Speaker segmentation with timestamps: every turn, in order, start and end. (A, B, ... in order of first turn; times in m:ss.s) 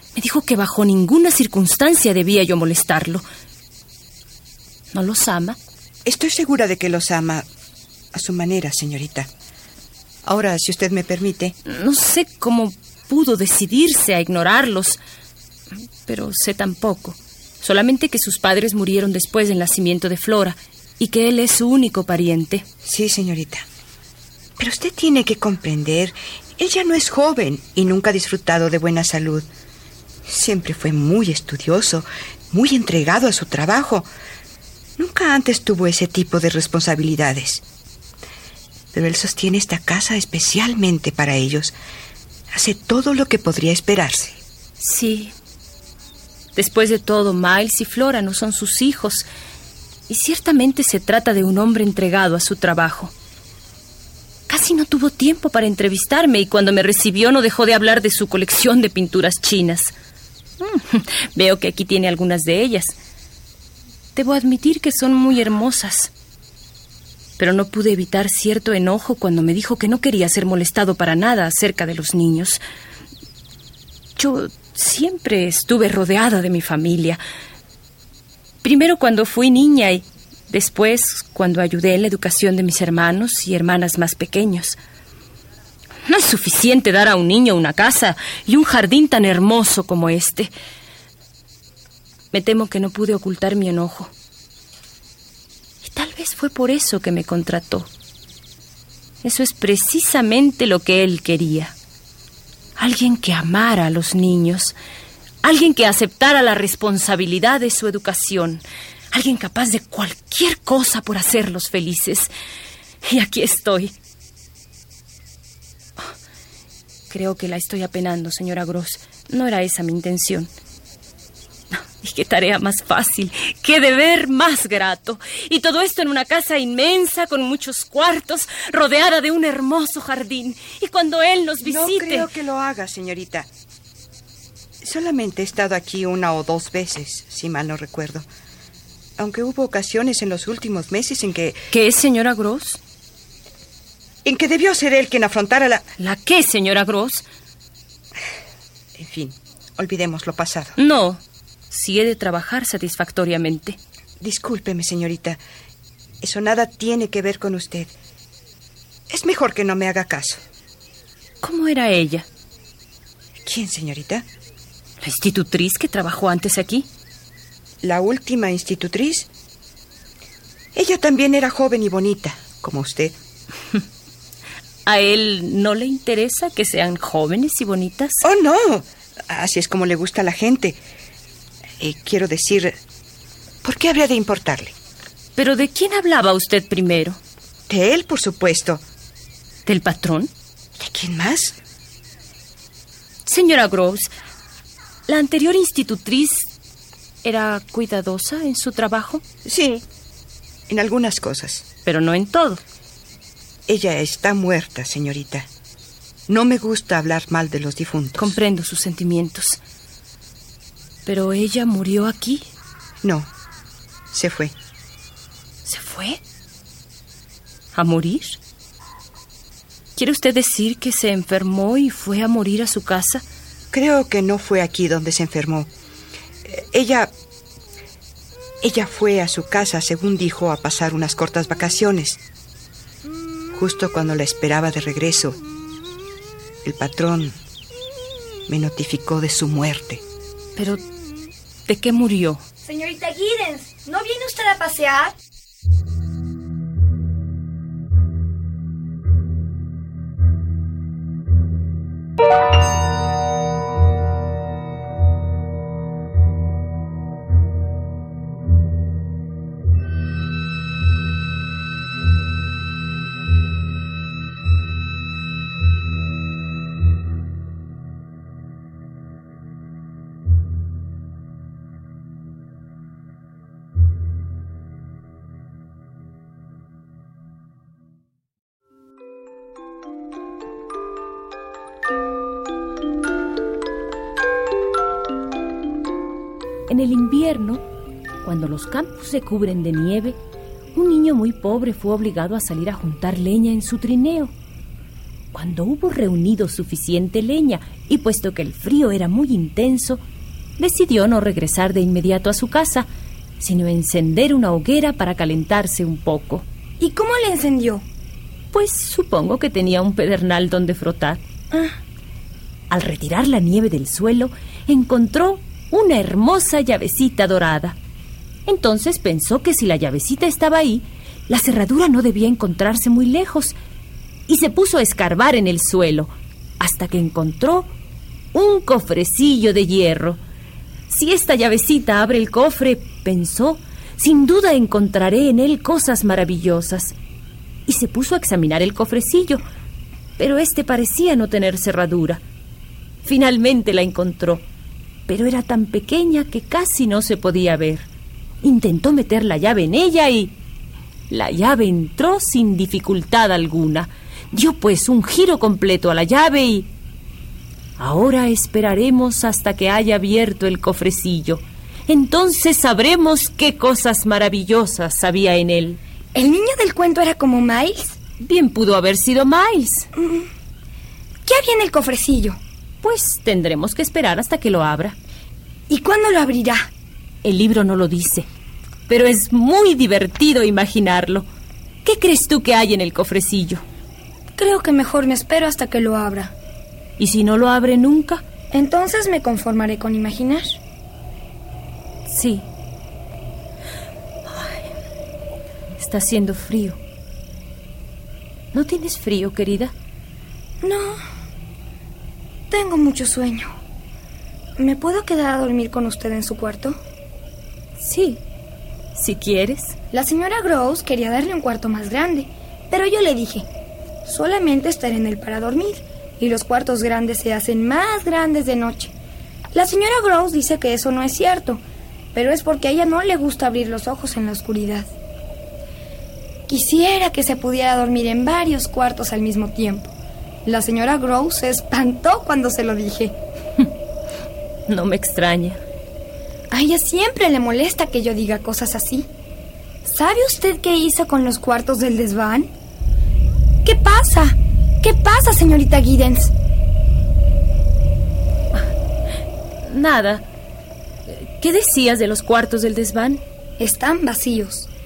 0:00.1-0:03.2 A
0:04.9-0:05.6 A
0:06.0-0:07.5 B
0:08.1-0:09.3 B
0:10.2-0:11.6 B
0:11.6-0:15.0 A
0:16.1-0:22.6 A
0:22.8-0:23.6 B
0:24.6-0:29.5 B
0:30.3-0:34.1 B
0:35.0-0:37.6 B
0:38.9-0:41.8 B
0:42.5-0:44.4 B
0:44.8-0:45.4 A
0:46.6-0:49.3 A
0:50.1-0:53.1 A
0:54.5-0:59.9 A
1:00.6-1:02.9 A
1:04.1-1:06.1 A
1:07.4-1:12.6 A
1:14.2-1:17.2 A
1:18.6-1:24.8 A
1:26.1-1:30.5 A
1:32.3-1:34.1 A
1:35.8-1:37.9 A
1:39.2-1:41.8 A
1:42.8-1:44.8 A
1:45.4-1:52.3 A
1:53.0-1:53.9 A
1:57.1-2:00.5 A
2:01.7-2:12.3 A
2:11.6-2:13.5 B
2:14.8-2:18.3 B
2:19.2-2:21.6 B
2:21.7-2:22.8 A
2:24.2-2:25.9 B
2:26.0-2:27.2 A
2:28.9-2:30.8 B
2:30.8-2:33.8 A
2:34.2-2:35.4 B
2:36.2-2:37.9 B
2:39.1-2:40.4 B
2:41.4-2:42.3 A
2:43.4-2:44.3 B
2:45.0-2:46.9 A
2:47.8-2:49.3 B
2:50.8-2:53.1 B
2:54.9-2:58.2 A
2:58.2-3:00.8 B
3:01.8-3:02.8 B
3:03.6-3:04.8 B
3:05.4-3:07.2 A
3:07.7-3:08.8 B
3:09.6-3:10.3 A
3:10.8-3:11.6 B
3:13.3-3:14.1 A
3:15.1-3:16.5 A
3:17.2-3:19.2 A
3:19.4-3:19.8 B
3:20.7-3:21.6 B
3:21.8-3:22.6 A
3:23.7-3:25.5 B
3:26.3-3:28.4 B
3:28.2-3:29.6 A
3:31.1-3:32.5 A
3:33.0-3:33.3 B
3:34.1-3:34.5 B
3:35.6-3:36.2 A
3:37.7-3:38.4 A
3:40.0-3:43.2 A
3:43.7-3:45.7 B
3:46.4-3:47.1 B
3:48.6-3:52.2 B
3:53.5-3:55.4 B
3:56.6-3:57.4 B
3:58.5-4:00.0 B
4:00.6-4:00.8 A
4:01.7-4:02.4 A
4:02.6-4:05.1 C
4:46.7-4:47.6 A
4:48.2-4:50.2 A
4:50.8-4:54.3 A
4:55.3-5:00.0 A
5:00.6-5:02.9 A
5:03.4-5:06.4 A
5:06.8-5:07.9 C
5:08.5-5:11.2 A
5:11.5-5:11.8 C
5:12.7-5:17.8 A
5:18.4-5:23.6 A
5:24.3-5:27.7 A
5:28.3-5:30.2 A
5:30.9-5:36.9 A
5:37.7-5:39.4 A
5:40.2-5:42.2 A
5:43.0-5:44.4 A
5:45.1-5:47.9 A
5:48.4-5:50.4 A
5:51.1-5:56.7 A
5:57.8-6:05.8 A
6:06.1-6:08.0 C
6:08.2-6:09.9 A
6:09.9-6:10.3 C
6:11.2-6:12.4 C
6:12.8-6:15.0 A
6:15.7-6:16.7 C
6:17.2-6:18.3 A
6:18.9-6:21.3 A
6:21.8-6:23.6 A
6:24.4-6:26.4 C
6:27.0-6:28.2 A
6:28.5-6:30.6 C
6:32.1-6:32.5 A
6:34.3-6:34.6 A
6:35.8-6:36.8 A
6:38.5-6:39.7 A
6:40.6-6:41.0 C
6:42.5-6:43.6 C
6:44.6-6:46.8 C
6:47.8-6:48.2 A
6:48.9-6:49.8 A
6:49.9-6:53.5 C
6:54.0-6:58.9 C
6:59.5-7:01.6 C
7:02.1-7:04.9 C
7:06.5-7:13.1 C
7:14.7-7:15.6 A
7:16.5-7:19.1 C
7:19.8-7:22.5 C
7:23.6-7:26.3 C
7:29.6-7:30.2 A
7:31.1-7:33.2 A
7:33.6-7:34.7 C